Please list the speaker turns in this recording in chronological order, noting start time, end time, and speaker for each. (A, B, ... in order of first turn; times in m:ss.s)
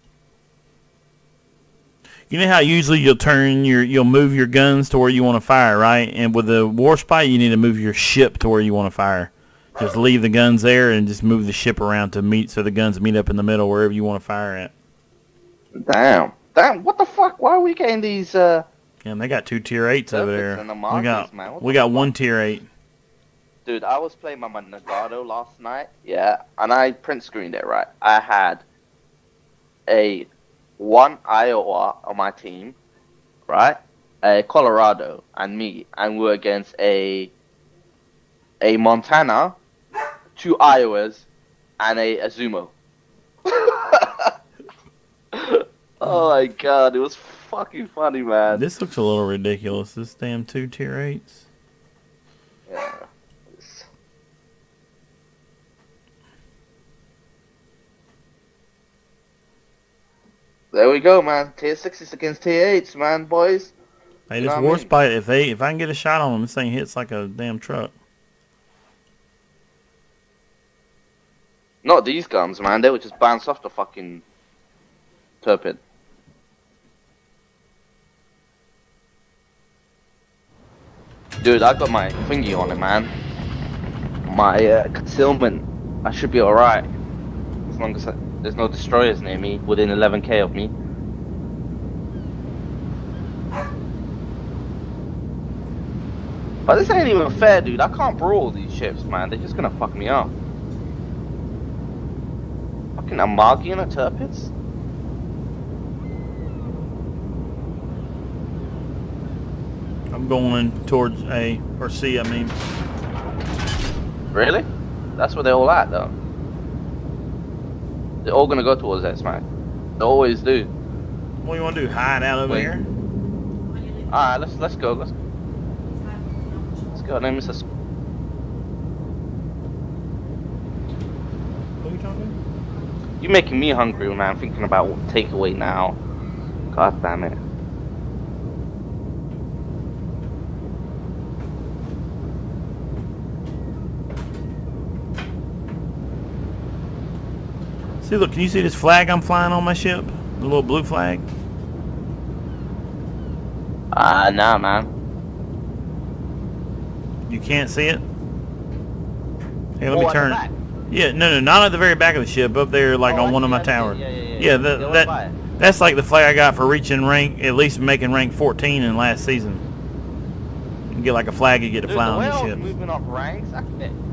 0:02.3-0:14.7 A
0:15.8-0:18.6 B
0:19.0-0:22.7 A
0:20.1-0:22.1 B
0:23.6-0:28.6 B
0:29.9-0:32.8 B
0:33.5-0:37.3 B
0:38.6-0:39.6 B
0:40.4-0:41.2 B
0:41.8-0:42.7 B
0:43.4-0:44.3 B
0:45.3-0:48.6 B
0:48.5-0:51.4 A
0:52.7-0:53.9 B
1:00.7-1:03.7 B
1:04.3-1:07.9 A
1:04.4-1:04.9 B
1:11.8-1:14.2 B
1:15.4-1:15.8 B
1:21.4-1:23.1 B
1:24.2-1:26.8 B
1:27.7-1:30.7 B
1:36.6-1:40.3 B
1:43.0-1:44.5 B
1:50.1-1:52.5 A
1:54.3-1:56.1 B
1:58.2-1:59.4 B
2:00.0-2:00.7 B
2:01.4-2:02.8 A
2:04.1-2:05.1 B
2:06.9-2:07.6 B
2:11.8-2:12.4 A
2:13.2-2:16.0 B
2:16.7-2:17.4 B
2:28.0-2:31.3 A
2:33.9-2:34.9 B
2:37.3-2:38.0 A
2:39.8-2:40.4 A
2:39.9-2:40.5 B
2:40.9-2:49.6 A
2:43.0-2:45.4 B
2:50.9-2:52.6 A
2:51.8-2:54.0 B